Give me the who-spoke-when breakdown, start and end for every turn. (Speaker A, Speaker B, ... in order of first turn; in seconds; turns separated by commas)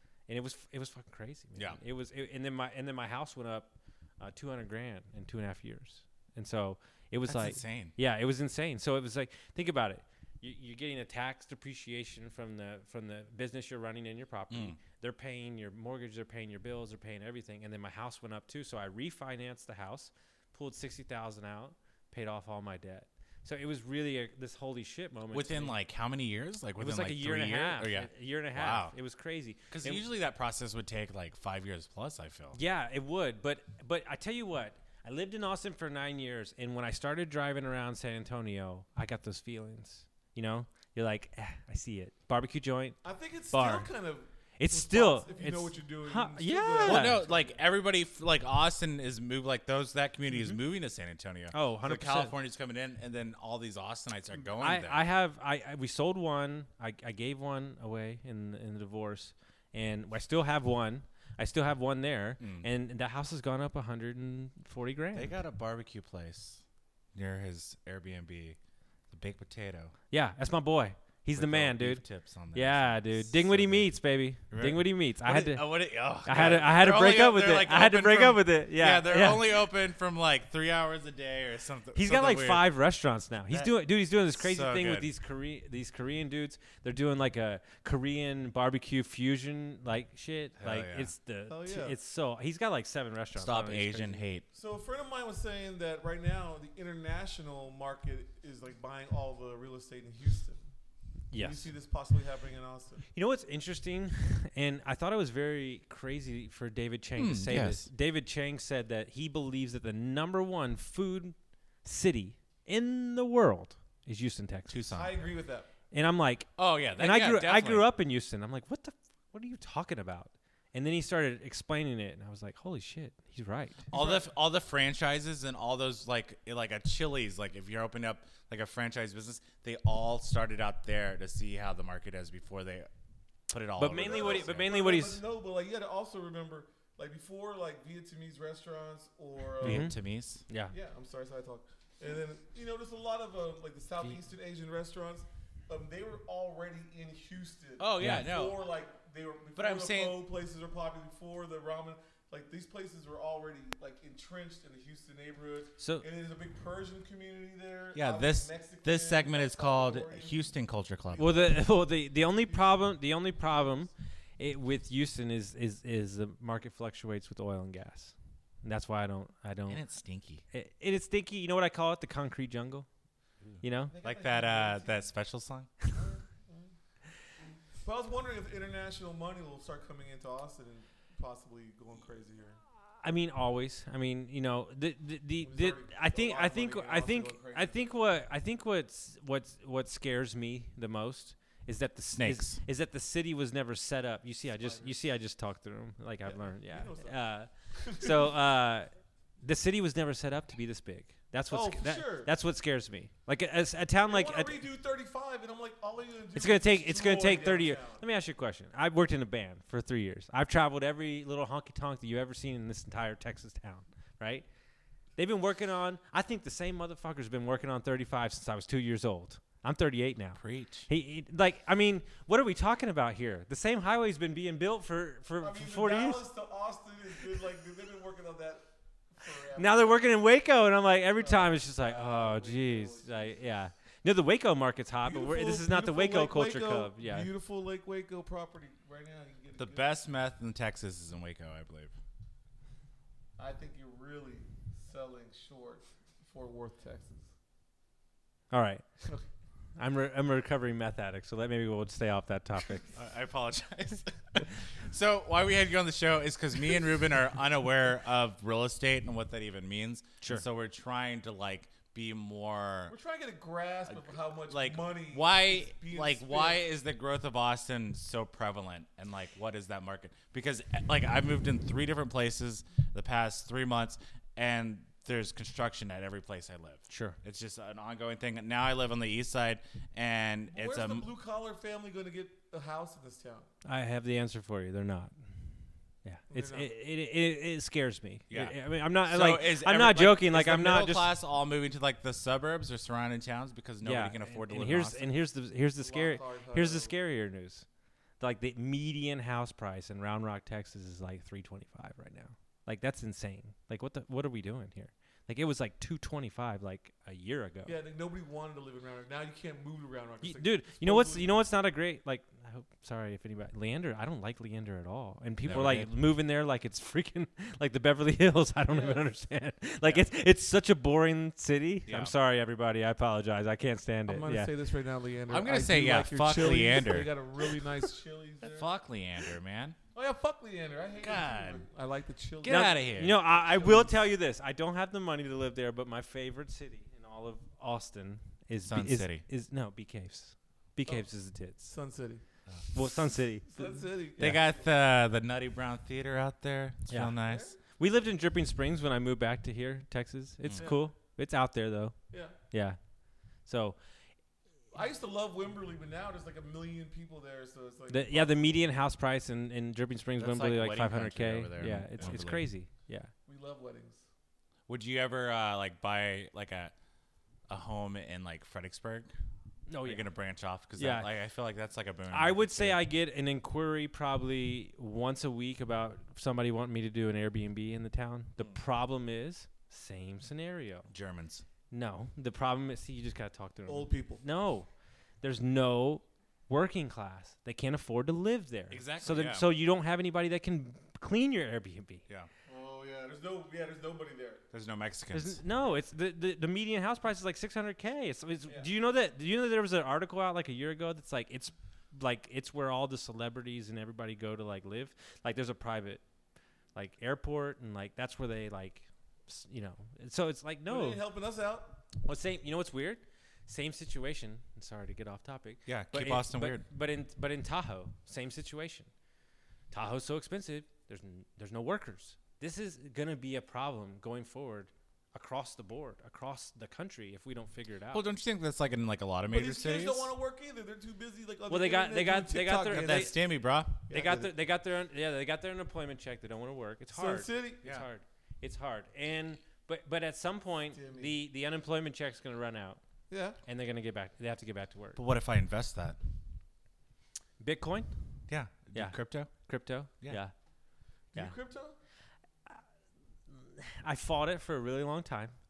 Speaker A: 0.3-25.8, Speaker B: 7.3-8.0, Speaker B: 14.5-14.8, Speaker B: 25.3-28.9, Speaker A: 26.8-30.0, Speaker B: 29.7-32.6, Speaker A: 32.5-43.0, Speaker C: 43.0-47.6, Speaker A: 43.5-43.9, Speaker A: 44.6-47.2, Speaker B: 46.8-55.0, Speaker A: 51.5-52.3, Speaker A: 54.6-65.4, Speaker B: 62.4-62.7, Speaker B: 65.1-68.6, Speaker B: 69.1-69.9, Speaker A: 70.1-79.6, Speaker B: 71.4-74.0, Speaker B: 74.5-82.7, Speaker C: 76.3-76.6, Speaker A: 82.0-94.2, Speaker B: 84.3-85.1, Speaker B: 90.6-91.1, Speaker C: 91.5-92.0, Speaker B: 93.3-94.5, Speaker C: 94.5-100.6, Speaker A: 101.3-101.7, Speaker C: 101.3-103.0, Speaker A: 103.1-114.8, Speaker B: 107.2-107.9, Speaker B: 114.7-115.1, Speaker C: 114.9-115.7, Speaker A: 115.9-123.9, Speaker B: 116.6-117.8, Speaker C: 123.9-124.3, Speaker B: 123.9-132.9, Speaker B: 133.5-134.7, Speaker A: 133.8-135.2, Speaker C: 133.9-139.9, Speaker B: 139.6-140.4, Speaker A: 139.6-140.0, Speaker A: 140.5-140.7, Speaker C: 140.7-160.5, Speaker B: 147.8-148.6, Speaker A: 148.0-148.3, Speaker B: 149.6-150.2, Speaker A: 155.8-156.1, Speaker B: 157.9-161.3, Speaker C: 161.1-163.8, Speaker A: 161.2-169.8, Speaker B: 169.7-170.4, Speaker A: 170.5-172.9, Speaker B: 173.4-175.7, Speaker A: 173.6-173.9, Speaker C: 173.9-175.1, Speaker C: 175.9-176.7, Speaker C: 177.8-182.6, Speaker A: 183.0-204.6, Speaker C: 185.4-187.9, Speaker B: 192.2-192.6, Speaker C: 194.6-195.0, Speaker C: 196.3-197.2, Speaker C: 197.8-198.3, Speaker C: 201.5-202.3, Speaker C: 204.1-208.0, Speaker A: 206.3-214.4, Speaker A: 215.2-226.2, Speaker B: 220.4-220.9, Speaker C: 225.4-228.7, Speaker C: 229.2-230.1, Speaker A: 229.6-237.3, Speaker C: 231.2-233.4, Speaker C: 235.0-239.9, Speaker B: 239.6-241.9, Speaker C: 243.4-247.3, Speaker A: 248.5-248.9, Speaker A: 249.8-252.9, Speaker B: 252.9-262.9, Speaker C: 262.9-266.6, Speaker B: 263.9-281.1, Speaker A: 276.9-277.2, Speaker C: 280.5-283.5, Speaker A: 283.6-285.1, Speaker A: 286.1-291.1, Speaker C: 286.3-286.7, Speaker B: 288.3-295.1, Speaker A: 293.8-297.7, Speaker C: 295.8-296.9, Speaker A: 298.2-307.8, Speaker C: 307.7-311.4, Speaker A: 310.2-324.5, Speaker B: 315.4-315.9, Speaker C: 318.7-319.1, Speaker B: 321.9-322.1, Speaker C: 324.1-328.7, Speaker B: 325.3-327.2, Speaker B: 328.4-329.8, Speaker C: 329.9-333.9, Speaker B: 331.0-331.6, Speaker B: 332.4-333.2, Speaker A: 332.5-341.8, Speaker B: 338.6-339.2, Speaker C: 340.9-342.2, Speaker A: 342.7-343.8, Speaker C: 343.5-344.6, Speaker B: 344.2-347.6, Speaker A: 346.9-352.8, Speaker C: 347.2-347.6, Speaker C: 350.6-350.9, Speaker C: 352.1-352.4, Speaker A: 353.4-353.8, Speaker C: 354.7-358.7, Speaker A: 357.9-363.1, Speaker B: 360.2-362.4, Speaker C: 363.3-364.0, Speaker B: 364.7-366.7, Speaker B: 367.5-369.1, Speaker A: 369.7-370.1, Speaker B: 369.8-372.8, Speaker A: 370.8-371.1, Speaker A: 372.1-380.9, Speaker B: 380.9-381.4, Speaker A: 381.7-384.7, Speaker C: 383.7-384.2, Speaker A: 385.2-392.0, Speaker B: 388.7-389.5, Speaker C: 392.5-394.4, Speaker B: 394.5-395.4, Speaker A: 395.1-406.0, Speaker A: 406.8-411.0, Speaker C: 410.7-411.8, Speaker A: 412.0-418.9, Speaker B: 415.7-416.6, Speaker A: 419.7-428.1, Speaker B: 427.9-430.1, Speaker C: 429.3-433.1, Speaker A: 431.5-433.2, Speaker B: 432.7-433.8, Speaker C: 433.9-434.3, Speaker A: 433.9-442.8, Speaker C: 436.9-437.6, Speaker C: 440.7-441.1, Speaker C: 443.1-443.4, Speaker A: 443.4-445.0, Speaker B: 445.0-446.0, Speaker A: 447.4-447.9, Speaker B: 448.3-449.3, Speaker A: 448.7-450.3, Speaker C: 451.1-451.8, Speaker A: 453.3-455.4